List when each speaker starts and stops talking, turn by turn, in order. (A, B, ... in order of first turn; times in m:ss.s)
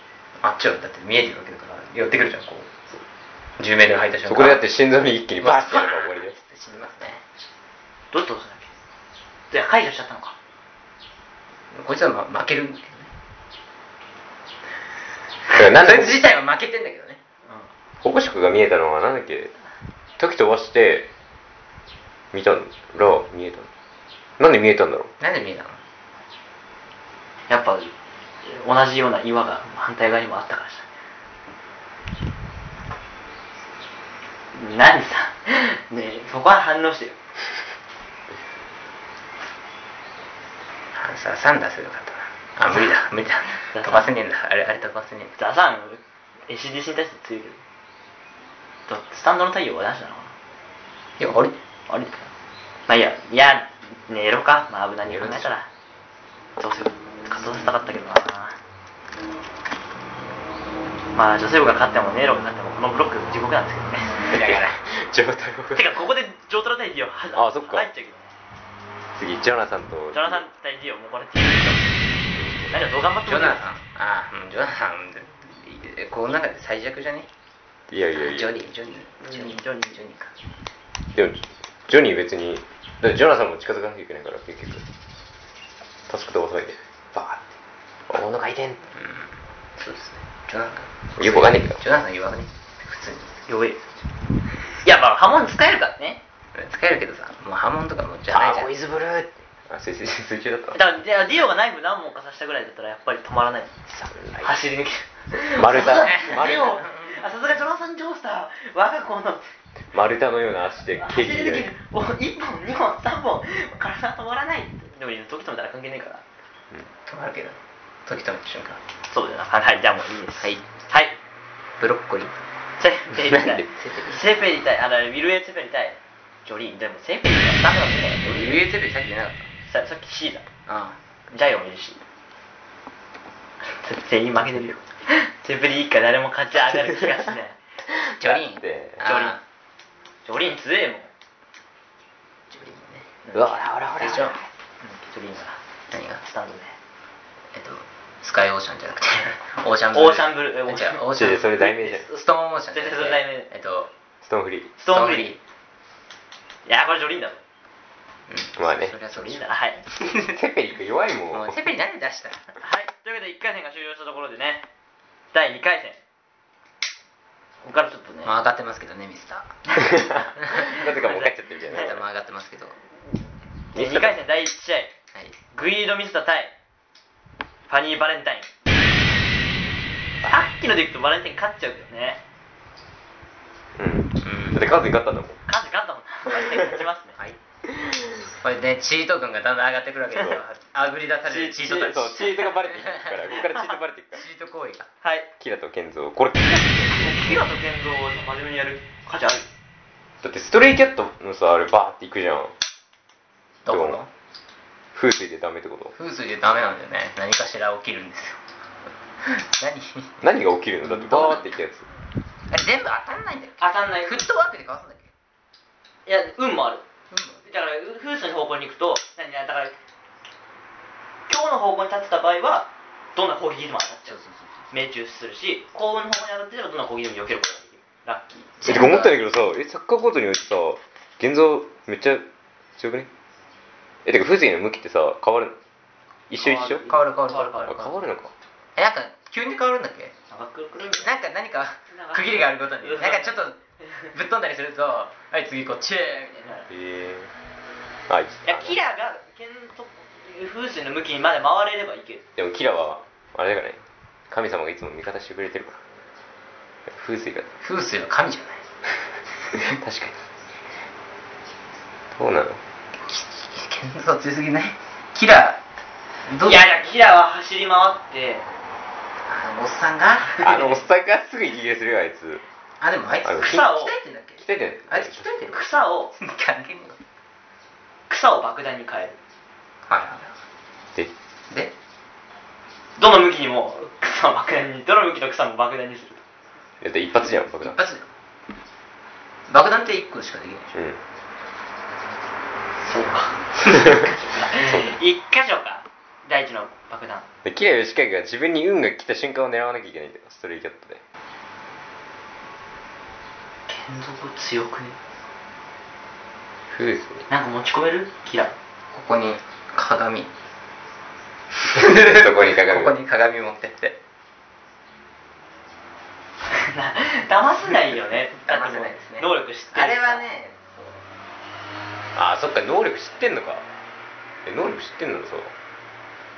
0:00.4-0:02.7 A
0:03.6-0:04.6 A
0:04.3-0:06.4 B
0:05.4-0:07.2 A
0:08.1-0:08.7 C
0:09.5-0:10.4 C
0:11.7-0:13.1 A
0:15.5-0:17.2 A
0:15.5-0:16.2 B
0:18.0-0:19.5 B
0:20.2-0:21.1 B
0:22.3-0:23.7 B
0:24.4-0:25.1 B
0:25.2-0:25.8 A
0:27.5-0:30.9 C
0:34.5-0:37.2 C
0:40.9-0:45.3 A
0:43.7-0:44.1 C
0:45.4-0:47.6 C
0:48.9-0:50.4 C
0:51.2-0:51.6 A
0:51.9-0:52.3 C
0:52.9-0:55.7 C
0:55.0-0:55.5 B
0:56.6-0:58.6 C
1:01.2-1:04.2 C
1:04.3-1:04.8 A
1:04.3-1:05.9 B
1:05.7-1:08.3 C
1:07.4-1:07.9 B
1:09.2-1:10.4 B
1:10.1-1:11.9 C
1:12.3-1:12.9 B
1:12.7-1:13.6 C
1:13.3-1:17.3 A
1:17.9-1:18.6 B
1:18.2-1:20.3 A
1:19.2-1:20.0 C
1:21.1-1:24.8 B
1:26.1-1:27.4 B
1:28.1-1:28.8 B
1:29.8-1:33.4 A
1:31.2-1:31.8 B
1:33.5-1:33.8 C
1:34.8-1:36.2 C
1:36.5-1:38.7 A
1:38.3-1:40.8 B
1:40.7-1:43.7 C
1:43.9-1:44.5 B
1:44.4-1:49.5 C
1:45.5-1:46.9 B
1:49.9-1:51.7 B
1:51.0-1:56.2 C
1:57.0-1:58.8 A
1:59.1-2:01.2 C
2:01.8-2:02.4 A
2:02.8-2:08.6 C
2:03.3-2:03.6 B
2:03.8-2:04.2 A
2:08.2-2:09.5 A
2:09.7-2:10.4 C
2:10.7-2:11.0 A
2:11.3-2:12.0 C
2:13.6-2:17.6 C
2:18.0-2:19.0 B
2:18.2-2:19.4 A
2:19.0-2:19.4 C
2:20.2-2:21.1 C
2:22.5-2:23.1 A
2:23.2-2:24.2 C
2:23.3-2:24.3 B
2:24.0-2:24.4 A
2:24.8-2:25.6 C
2:25.9-2:26.2 A
2:26.2-2:26.8 C
2:27.5-2:33.9 A
2:29.9-2:33.5 C
2:31.1-2:32.0 B
2:34.2-2:34.7 B
2:34.8-2:35.4 C
2:34.9-2:35.4 A
2:36.7-2:37.4 C
2:38.3-2:39.4 A
2:38.6-2:38.9 B
2:39.1-2:39.9 C
2:40.0-2:40.4 A
2:40.1-2:41.6 B
2:41.3-2:42.4 A
2:42.6-2:44.7 C
2:45.3-2:46.0 C
2:47.6-2:48.4 C
2:48.2-2:49.6 A
2:49.9-2:52.0 B
2:50.0-2:51.9 C
2:50.4-2:50.7 A
2:51.7-2:52.8 A
2:53.8-2:54.2 B
2:53.8-2:54.9 C
2:55.5-2:56.5 C
2:57.7-2:58.5 C
3:00.2-3:02.2 C
3:03.8-3:05.4 B
3:04.2-3:04.6 A
3:05.5-3:07.2 C
3:07.8-3:08.1 B
3:08.4-3:12.2 A
3:11.3-3:12.5 C
3:11.6-3:14.2 B
3:12.8-3:13.2 A
3:14.1-3:14.9 A
3:15.0-3:15.3 C
3:15.4-3:17.2 B
3:17.0-3:19.5 C
3:20.2-3:22.5 B
3:23.7-3:24.1 A
3:23.7-3:24.0 B
3:25.0-3:26.0 B
3:26.0-3:28.4 A
3:29.2-3:30.2 A
3:30.2-3:31.9 B
3:30.8-3:31.6 A
3:32.5-3:35.1 A
3:33.6-3:34.3 C
3:36.1-3:36.8 C
3:37.1-3:37.5 A
3:37.4-3:39.8 C
3:41.3-3:44.2 C
3:44.1-3:44.6 A
3:44.7-3:48.8 C
3:48.6-3:49.2 A
3:48.6-3:52.3 B
3:52.8-3:53.1 B
3:54.0-3:55.6 B
3:56.3-3:56.8 B
3:56.4-3:58.0 C
3:56.9-3:57.7 A
3:57.7-3:58.3 B
3:58.8-4:00.1 A
4:00.3-4:01.2 C
4:00.8-4:03.6 A
4:01.9-4:03.4 C
4:04.1-4:06.6 A
4:06.4-4:06.7 C
4:06.7-4:07.3 B
4:08.1-4:08.8 B
4:08.4-4:12.2 C
4:12.4-4:15.8 B
4:16.9-4:17.5 B
4:17.6-4:18.6 A
4:19.6-4:20.2 B
4:22.2-4:22.6 B
4:23.0-4:25.6 A
4:26.3-4:26.8 A
4:26.4-4:28.5 C
4:29.2-4:30.6 A
4:30.4-4:32.4 B
4:32.8-4:35.6 A
4:33.2-4:33.8 B
4:33.4-4:33.9 C
4:34.4-4:35.3 B
4:35.5-4:36.1 C
4:36.1-4:37.0 A
4:38.1-4:39.2 C
4:39.9-4:40.3 A
4:43.0-4:46.2 C
4:46.8-4:47.8 B
4:47.6-4:48.1 A
4:49.5-4:50.7 A
4:50.7-4:51.0 B
4:52.8-4:57.2 C
4:53.7-4:54.0 B
4:54.5-4:55.0 B
4:57.4-5:01.0 B
5:03.7-5:05.0 C
5:06.7-5:07.2 B
5:07.3-5:08.6 C
5:08.9-5:10.3 A
5:11.7-5:14.0 A
5:11.8-5:13.0 B
5:16.5-5:20.2 C
5:18.4-5:21.0 A
5:22.2-5:23.6 B
5:24.5-5:25.5 B